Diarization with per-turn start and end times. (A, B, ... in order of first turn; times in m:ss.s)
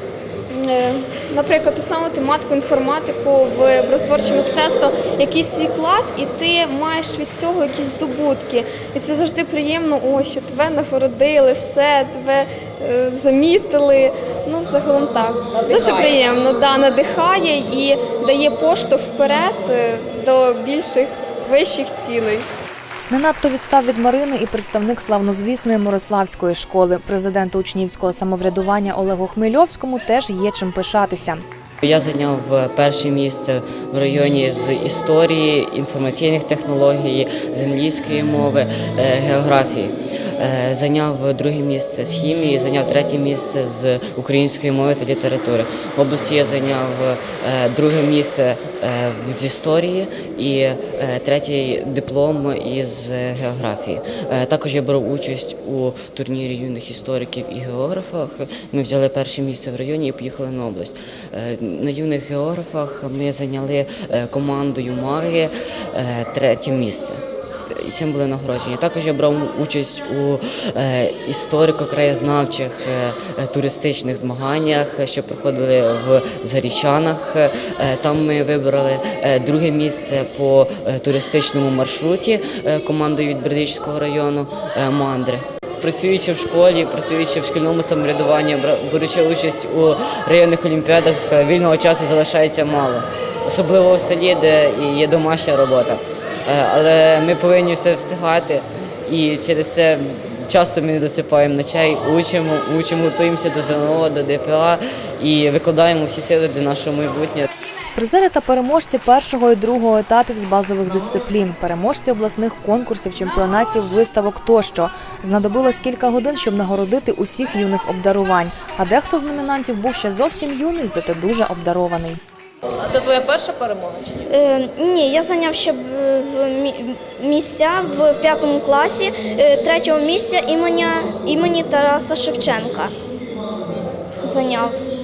0:00.5-0:22.5 A
0:15.5-0:16.2 B
0:23.1-0:31.4 C
0:31.8-1:07.2 D
1:07.7-1:47.5 D
1:47.9-2:02.2 C
2:02.8-2:04.1 B
2:04.3-2:12.9 E
2:14.2-2:14.8 E